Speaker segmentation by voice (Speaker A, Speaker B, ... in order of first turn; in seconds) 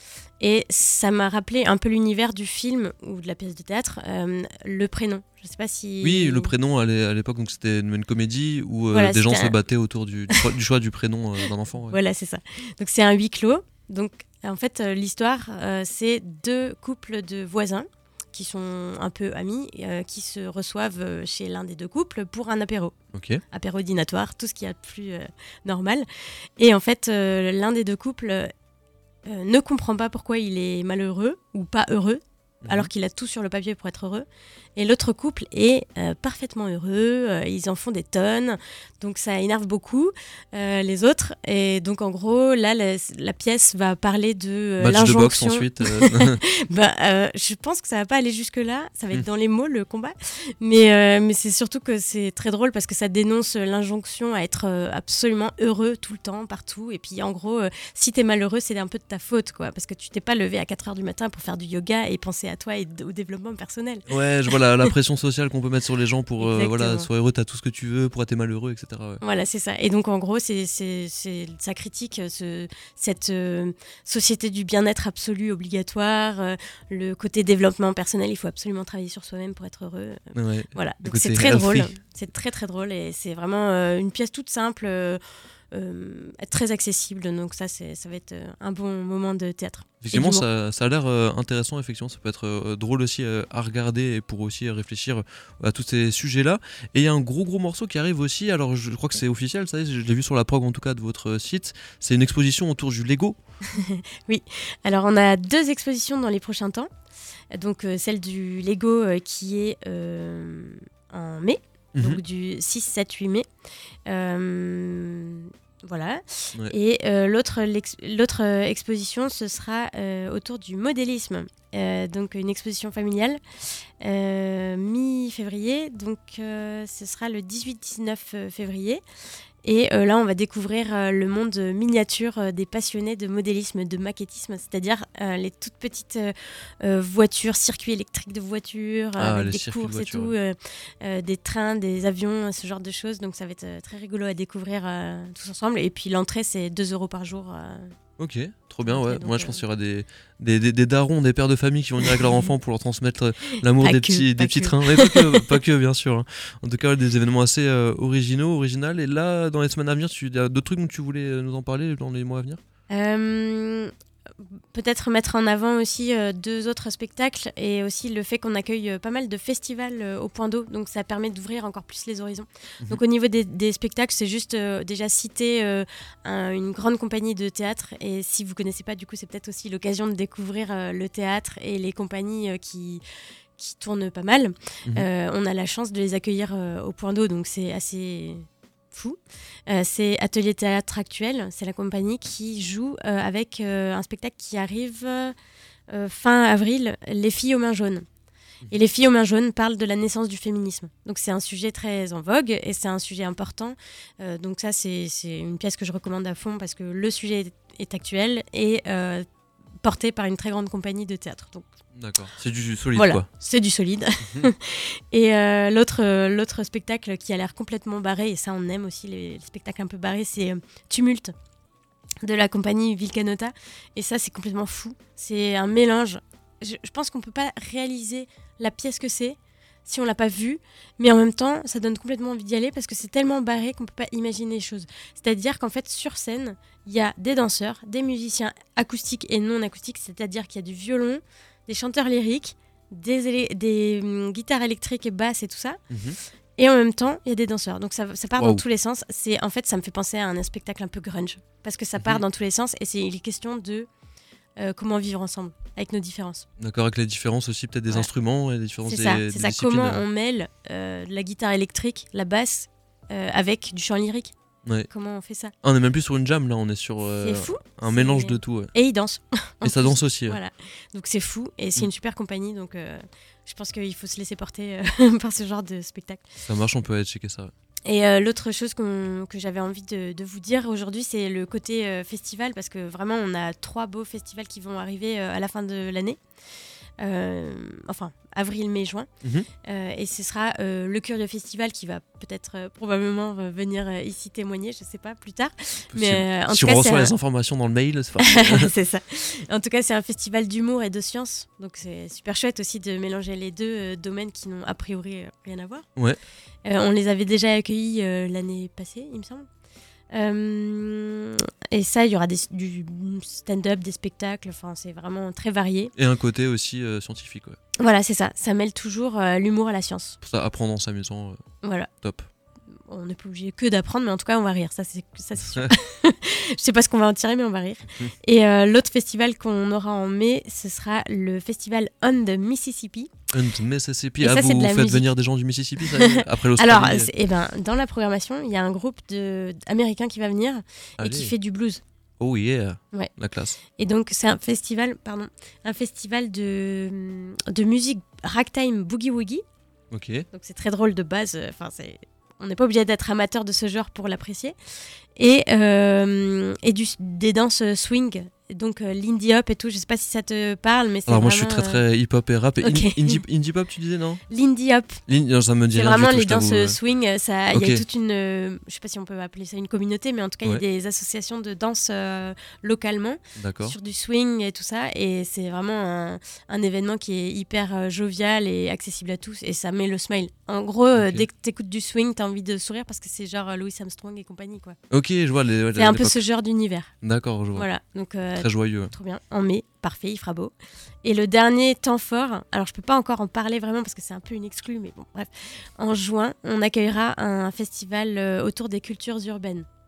Speaker A: 0.4-6.5, 8.9-9.6, 11.8-22.9, 23.5-26.1, 26.6-28.5, 29.2-64.9, 66.4-67.1, 69.2-90.5, 103.7-106.9, 107.5-113.5, 114.0-123.4, 124.0-129.0, 129.6-147.9, 148.8-149.6, 153.8-155.5, 162.9-183.0, 183.6-195.3, 195.9-198.0, 198.7-209.2, 209.8-211.6, 212.9-221.3, 222.2-245.8, 246.6-253.9, 254.6-256.4, 258.9-264.3, 264.9-265.5, 267.1-276.3, 277.9-286.2, 287.0-289.1, 289.6-297.1, 298.2-305.9, 306.6-309.5, 310.1-315.9, 317.8-320.2, 321.6-321.9, 322.9-333.1, 334.2-335.1, 335.8-341.8, 343.8-349.4, 350.3-354.5, 355.1-361.8, 362.6-363.2, 364.3-365.0, 365.7-384.8, 385.7-386.9, 387.5-399.6
Speaker B: 6.0-12.0, 23.1-23.4, 32.6-32.9, 44.8-46.4, 64.1-69.2, 80.3-82.0, 90.0-103.4, 112.0-112.2, 139.2-140.3, 148.2-162.6, 211.9-213.3, 245.9-246.2, 248.4-248.6, 252.0-252.2, 256.6-260.0, 265.6-268.7, 269.6-270.4, 276.4-277.5, 295.9-298.7, 315.9-317.6, 320.2-321.4, 322.0-322.3, 325.5-325.8, 333.3-337.1, 341.0-341.3, 342.2-343.6, 349.9-350.2, 361.1-364.2, 365.1-366.8, 367.5-367.8, 373.4-373.8, 380.9-381.2, 384.9-386.2, 387.0-387.7, 388.3-388.9